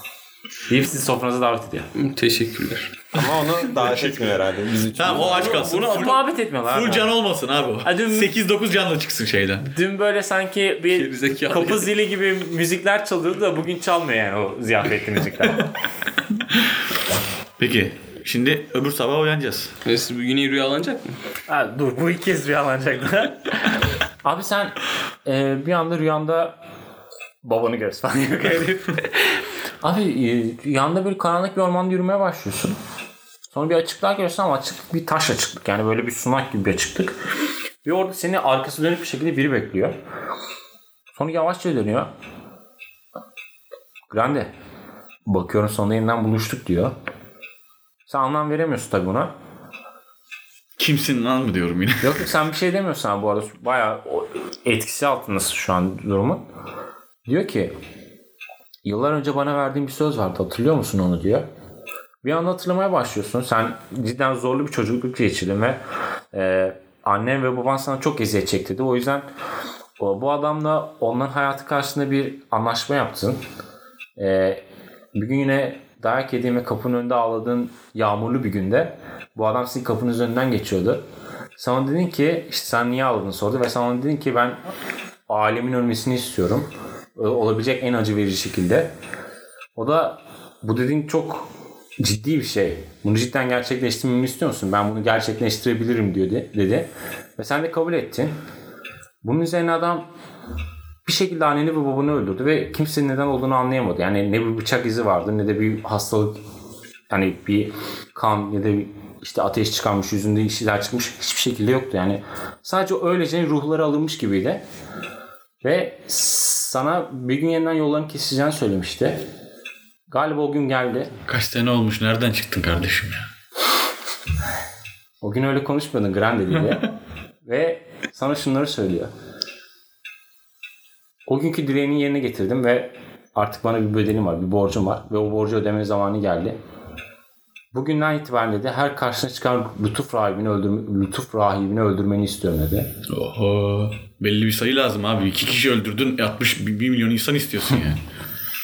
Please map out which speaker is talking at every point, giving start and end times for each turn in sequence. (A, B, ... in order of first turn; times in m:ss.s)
0:00.7-0:01.9 A
0:02.0-0:02.9 B
0:03.1-0:05.6 C
0:03.7-0:04.4 D
0:04.9-0:09.6 D
0:05.1-0:06.2 B
0:05.6-0:07.2 A
0:07.8-0:08.3 A
0:09.6-0:15.7 A
0:10.9-0:11.9 B
0:17.6-0:19.7 D
0:19.8-0:21.2 B
0:21.5-0:26.6 A
0:27.4-0:32.8 A
0:33.5-0:37.2 A
0:37.8-0:40.0 A
0:41.2-0:42.1 A
0:44.1-0:44.5 A
0:45.3-0:46.9 A
0:48.1-0:49.3 A
0:50.8-0:52.2 D
0:52.0-0:56.4 A
0:57.3-0:57.7 A
0:58.8-1:01.5 A
1:02.2-1:05.8 A
1:06.3-1:09.3 A
1:10.0-1:13.4 A
1:14.2-1:14.6 A
1:15.2-1:21.0 A
1:21.6-1:24.6 A
1:25.3-1:28.9 A
1:29.8-1:38.4 A
1:39.2-1:40.1 A
1:41.0-1:46.4 A
1:47.1-1:54.6 A
1:55.6-1:59.2 A
2:00.1-2:01.1 A
2:01.3-2:03.2 D
2:05.2-2:06.9 A
2:07.4-2:09.1 A
2:11.3-2:16.6 A
2:17.7-2:22.9 A
2:23.1-2:28.0 D